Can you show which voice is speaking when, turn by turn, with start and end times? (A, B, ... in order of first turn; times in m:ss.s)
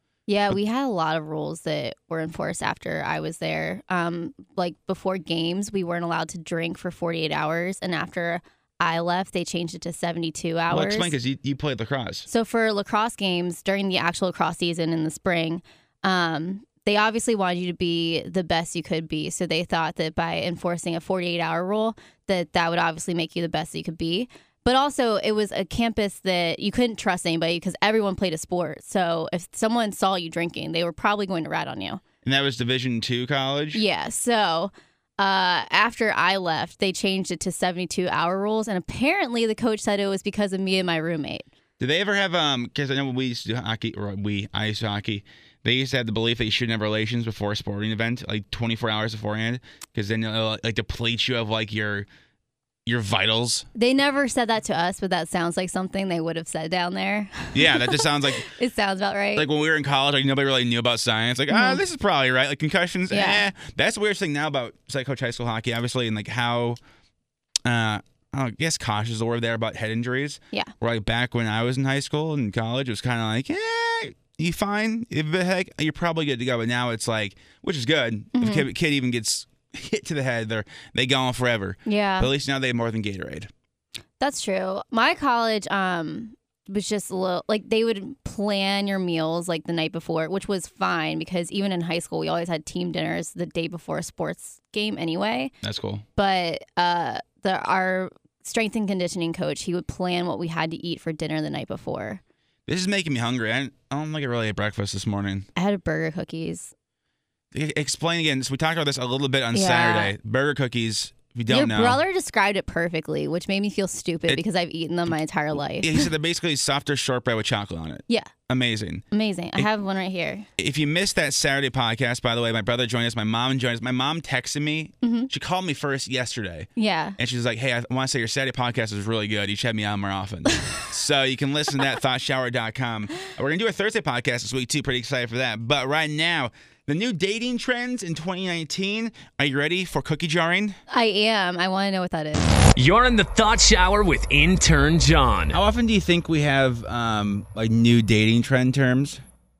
0:00.3-0:11.1 A
0:10.7-0:12.3 B
0:12.3-0:32.0 A
0:32.2-0:33.8 B
0:33.7-0:41.4 A
0:41.8-0:52.1 B
0:52.8-0:53.6 B
0:53.7-0:59.4 A
0:57.5-0:58.5 B
0:59.4-1:06.8 B
1:01.5-1:01.8 A
1:03.1-1:03.4 A
1:07.6-1:23.5 B
1:18.3-1:18.6 A
1:21.9-1:22.3 A
1:24.2-1:35.5 A
1:35.6-1:36.0 B
1:36.2-1:42.2 A
1:42.7-1:45.5 B
1:45.6-1:46.7 A
1:47.5-1:52.0 B
1:49.5-1:50.1 A
1:51.5-1:56.1 A
1:55.8-1:59.0 B
1:59.1-2:00.4 A
2:00.6-2:20.8 B
2:05.0-2:05.3 A
2:06.8-2:07.2 A
2:20.9-2:22.4 A
2:22.8-2:25.6 C
2:25.5-2:29.2 B